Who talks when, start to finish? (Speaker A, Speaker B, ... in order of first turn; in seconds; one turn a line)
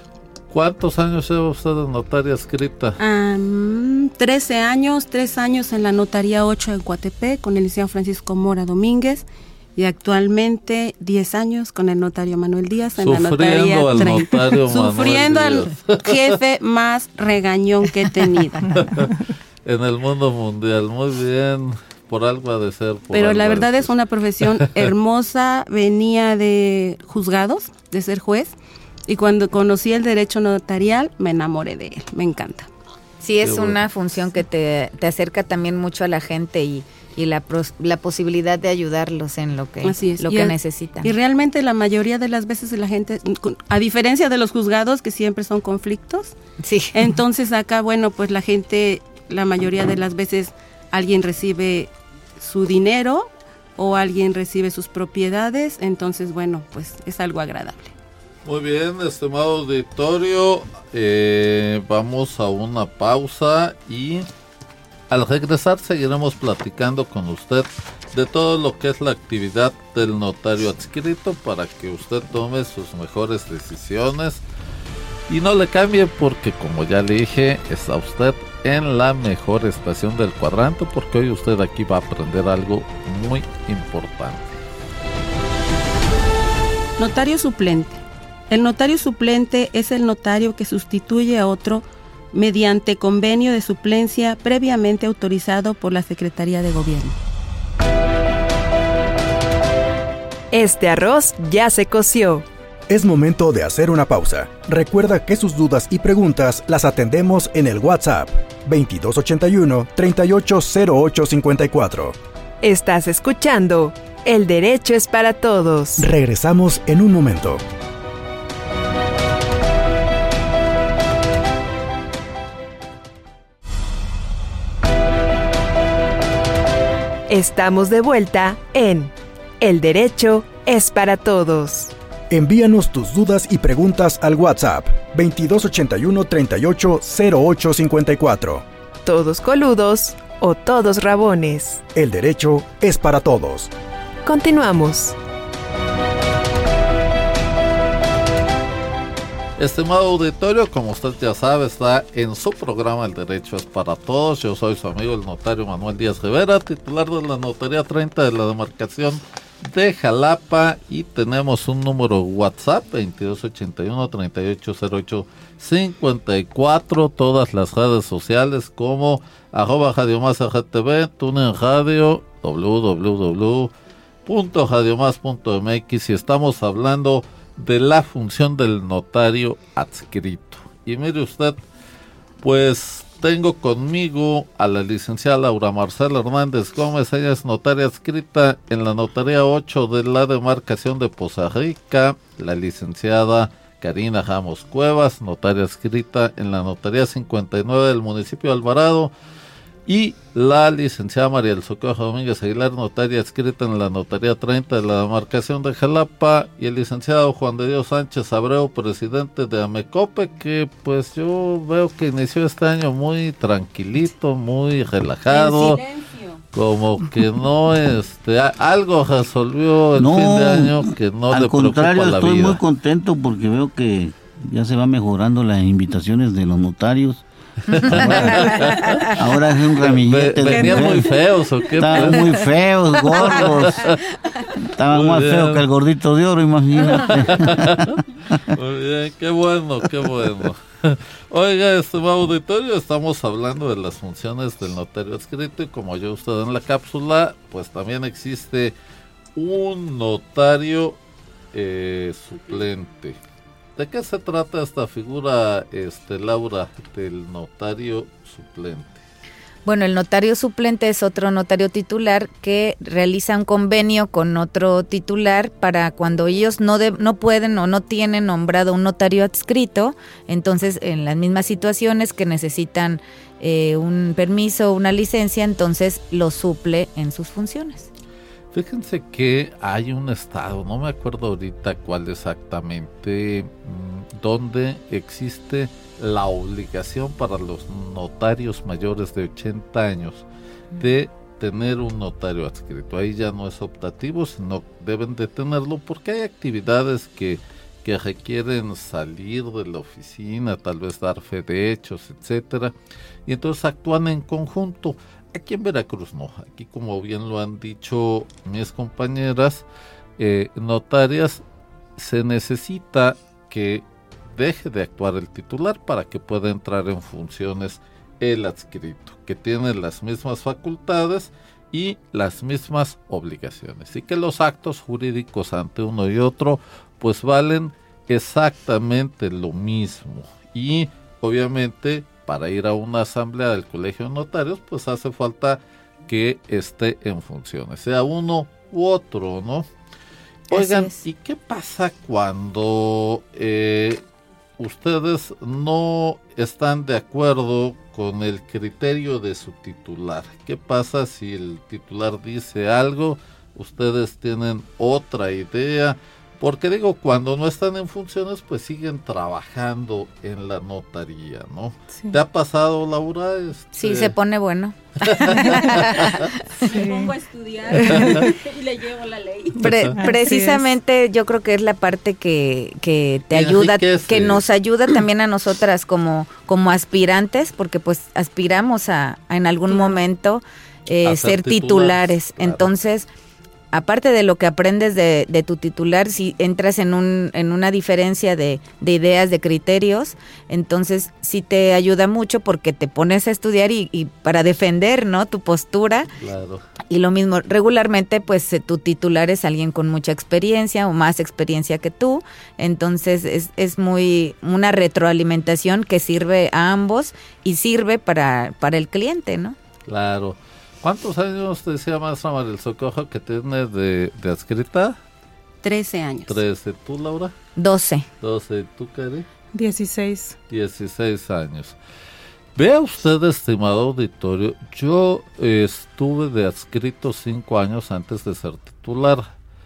Speaker A: 0.5-3.0
Speaker B: 3.0-18.7
Speaker A: 13.0-16.2
Speaker C: 18.6-19.1
Speaker A: 18.8-23.9
Speaker B: 23.1-28.6
Speaker A: 24.6-24.9
Speaker B: 29.1-32.7
Speaker D: 33.2-41.1
Speaker A: 33.4-33.8
Speaker B: 39.8-46.4
Speaker D: 46.6-47.0
Speaker B: 46.9-57.9
Speaker A: 58.5-64.3
Speaker A: 65.1-74.4
Speaker A: 75.3-84.6
Speaker B: 87.0-97.2
Speaker E: 100.5-102.5
Speaker F: 102.9-112.2
Speaker E: 112.6-116.0
Speaker F: 116.0-117.6
Speaker E: 127.3-131.9
Speaker F: 132.3-138.7
Speaker E: 139.1-141.8
Speaker F: 141.9-143.7
Speaker E: 144.2-145.2
Speaker A: 149.6-173.7
Speaker A: 174.3-181.6
Speaker A: 182.4-199.1
Speaker A: 199.9-215.8
Speaker B: 215.3-216.4
Speaker A: 216.5-222.6
Speaker G: 220.0-231.1
Speaker A: 227.7-229.1
Speaker D: 228.2-229.1
Speaker A: 229.8-232.4
Speaker C: 230.5-230.8
Speaker G: 231.8-234.0
Speaker A: 233.1-234.0
Speaker G: 234.8-238.4
Speaker A: 234.9-235.7
Speaker A: 236.8-248.8
Speaker A: 249.3-251.0
Speaker A: 251.5-253.2
Speaker A: 253.8-259.0
Speaker D: 259.7-277.9
Speaker A: 278.5-290.2
Speaker A: 290.8-302.7
Speaker A: 303.3-309.6
Speaker A: 310.2-311.4
Speaker A: 312.0-339.7
Speaker D: 340.5-341.0
Speaker A: 340.5-344.0
Speaker A: 344.6-364.1
Speaker D: 363.8-366.3
Speaker A: 365.0-366.3
Speaker C: 365.3-365.8
Speaker C: 366.6-367.1
Speaker B: 366.7-369.6
Speaker C: 367.9-368.3
Speaker A: 367.9-368.2
Speaker D: 369.6-383.1
Speaker A: 369.6-369.9
Speaker C: 369.9-370.7
Speaker A: 373.3-374.4
Speaker C: 379.7-380.0
Speaker A: 381.1-382.7
Speaker D: 383.7-396.1
Speaker A: 396.2-396.6
Speaker D: 396.9-409.6
Speaker A: 409.9-415.0
Speaker B: 415.6-416.4
Speaker A: 416.3-417.3
Speaker D: 417.6-418.1
Speaker A: 418.2-419.3
Speaker C: 419.5-420.4
Speaker A: 420.5-421.8
Speaker A: 422.6-429.2